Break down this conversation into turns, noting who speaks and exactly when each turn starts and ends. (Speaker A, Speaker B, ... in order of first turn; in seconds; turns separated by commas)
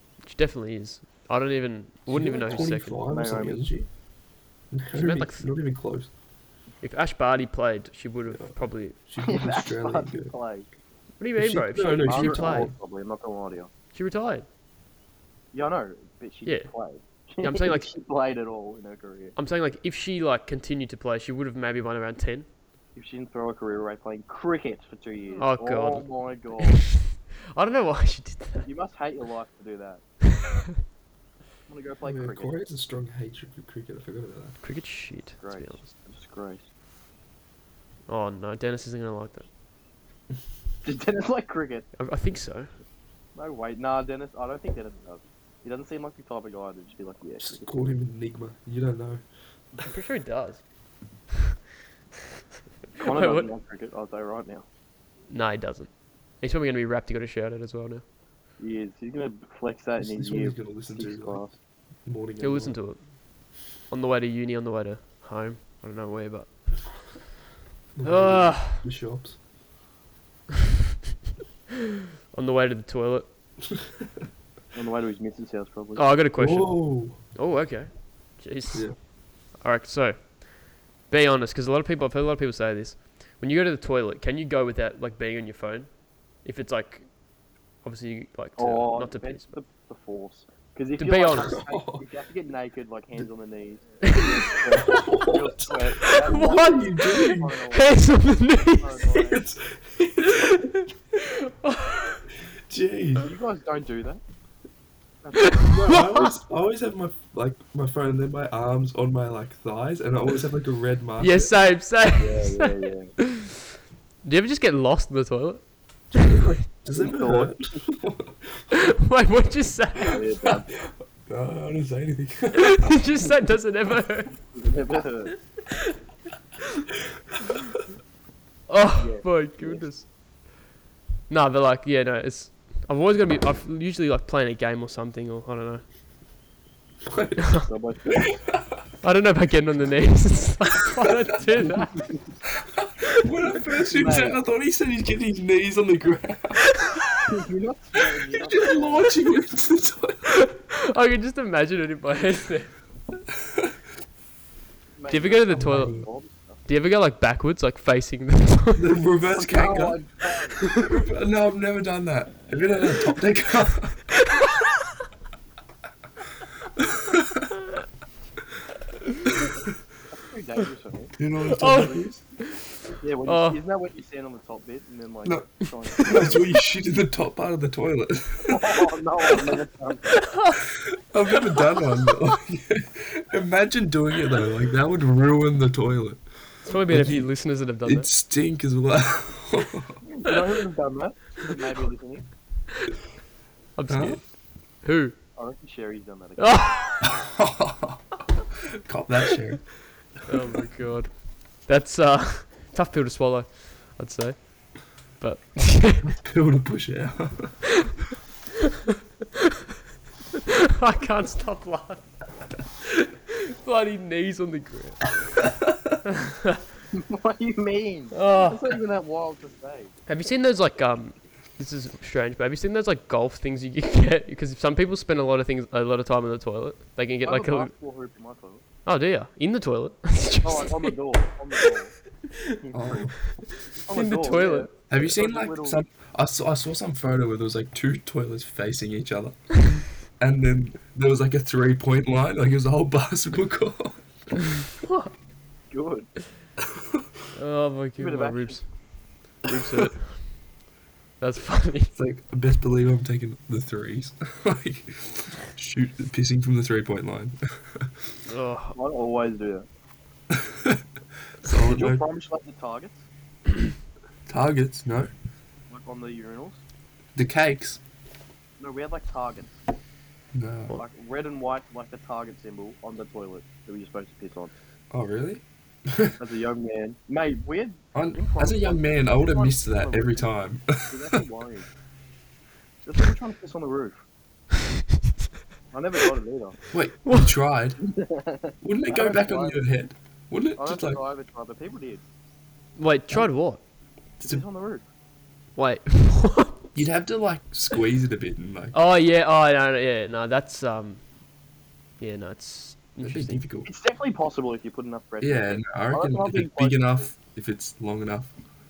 Speaker A: 0.3-3.0, Speaker B: 2.1-3.9, Speaker C: 2.5-3.7, Speaker B: 4.7-6.1, Speaker A: 4.9-5.5, Speaker A: 6.8-9.0, Speaker B: 8.3-10.3, Speaker C: 9.2-10.7, Speaker A: 11.2-12.7, Speaker B: 11.4-12.8, Speaker C: 12.0-13.7, Speaker A: 13.9-14.5, Speaker C: 15.5-19.4, Speaker A: 16.4-16.7, Speaker A: 17.4-17.9, Speaker A: 19.4-22.5, Speaker C: 23.0-26.8, Speaker A: 25.4-26.1, Speaker A: 26.6-28.7, Speaker C: 28.6-30.0, Speaker C: 31.7-32.5, Speaker B: 32.0-34.6, Speaker A: 34.6-35.9, Speaker C: 35.4-36.7, Speaker A: 38.1-39.5, Speaker C: 40.8-41.9, Speaker A: 42.0-42.7, Speaker C: 43.4-47.9, Speaker B: 47.4-49.2, Speaker A: 49.8-50.6, Speaker A: 53.0-53.5, Speaker C: 53.0-54.6, Speaker A: 55.3-55.9, Speaker A: 56.4-58.0, Speaker C: 58.6-61.6, Speaker B: 60.0-61.4, Speaker B: 62.0-62.8, Speaker A: 62.4-63.0, Speaker A: 63.9-66.5, Speaker B: 68.0-69.4, Speaker A: 68.0-68.8, Speaker A: 72.3-73.3, Speaker C: 74.7-76.1, Speaker A: 76.0-78.9, Speaker B: 76.4-77.2, Speaker A: 79.6-80.4, Speaker A: 81.1-85.9, Speaker A: 86.4-87.1, Speaker A: 87.8-89.5, Speaker C: 88.6-98.1, Speaker A: 91.0-91.6, Speaker B: 91.3-92.0, Speaker A: 94.0-95.1, Speaker B: 94.8-97.6, Speaker A: 96.0-99.2, Speaker C: 98.7-99.4, Speaker B: 99.2-100.7, Speaker A: 100.3-102.2, Speaker B: 102.7-103.3, Speaker C: 103.2-104.2, Speaker C: 105.2-105.8, Speaker A: 105.4-106.3, Speaker B: 105.7-111.5, Speaker A: 111.2-113.6, Speaker C: 112.2-113.2, Speaker A: 114.2-116.6, Speaker B: 116.3-118.7, Speaker C: 116.9-117.7, Speaker A: 118.7-120.4, Speaker C: 120.0-120.8, Speaker B: 121.2-123.0, Speaker A: 122.5-124.3, Speaker C: 124.5-125.3, Speaker A: 128.7-130.1, Speaker C: 129.0-129.9, Speaker A: 131.3-135.8, Speaker B: 137.1-137.6, Speaker C: 137.6-138.4, Speaker A: 139.0-142.1, Speaker B: 142.6-146.7, Speaker C: 143.5-144.4, Speaker C: 147.3-149.2, Speaker B: 148.3-150.3, Speaker A: 150.3-152.7, Speaker B: 153.4-153.8, Speaker C: 155.0-156.6, Speaker A: 155.1-156.0, Speaker B: 155.5-156.1, Speaker A: 156.7-159.0, Speaker B: 158.8-160.0, Speaker C: 159.3-160.8, Speaker B: 160.6-164.1, Speaker A: 164.3-164.7, Speaker C: 170.1-171.2, Speaker B: 171.2-172.2, Speaker A: 171.5-172.7, Speaker C: 173.0-176.5, Speaker A: 173.2-173.6, Speaker B: 175.2-178.9, Speaker C: 178.4-180.2, Speaker A: 180.1-180.6, Speaker B: 180.8-186.2, Speaker A: 186.6-188.1, Speaker B: 186.9-187.3, Speaker B: 187.8-190.0, Speaker C: 190.1-192.3, Speaker A: 193.8-194.2, Speaker B: 193.9-194.2, Speaker A: 194.8-195.2, Speaker C: 195.4-196.6, Speaker A: 196.4-197.1, Speaker B: 197.0-198.0, Speaker B: 198.8-199.7, Speaker A: 200.3-201.1, Speaker A: 201.6-206.1, Speaker B: 206.1-207.6, Speaker A: 210.5-212.0, Speaker A: 212.8-215.0, Speaker B: 215.4-216.0, Speaker A: 216.1-216.6, Speaker C: 216.9-219.9, Speaker A: 218.1-218.7, Speaker A: 220.1-227.7, Speaker C: 227.2-228.6, Speaker A: 228.9-230.9, Speaker C: 230.4-232.0, Speaker C: 232.6-233.1, Speaker B: 232.7-233.2, Speaker A: 233.4-234.7, Speaker C: 233.8-235.8, Speaker B: 234.9-244.1, Speaker A: 244.8-245.1, Speaker C: 245.7-246.1, Speaker A: 247.3-248.6, Speaker C: 248.0-248.6, Speaker A: 249.5-250.3, Speaker A: 251.2-251.9, Speaker B: 251.9-257.9, Speaker A: 258.3-258.8, Speaker C: 258.7-259.7, Speaker B: 260.3-260.8, Speaker B: 261.4-262.0, Speaker C: 261.6-263.1, Speaker B: 264.3-265.1, Speaker C: 265.7-266.6, Speaker B: 267.1-267.8, Speaker C: 268.6-269.6, Speaker B: 270.3-270.8, Speaker C: 270.7-274.5, Speaker B: 274.9-276.2, Speaker C: 276.2-281.7, Speaker B: 277.9-281.2, Speaker C: 282.8-284.0, Speaker C: 285.7-286.6, Speaker B: 286.7-287.8, Speaker C: 287.8-289.6, Speaker B: 288.6-291.0, Speaker C: 290.6-292.0, Speaker A: 292.8-293.6, Speaker C: 294.2-294.9, Speaker A: 295.6-296.6, Speaker B: 296.8-298.8, Speaker A: 298.7-301.0, Speaker A: 302.0-303.4, Speaker B: 303.0-303.7, Speaker C: 303.6-307.1, Speaker B: 305.2-308.3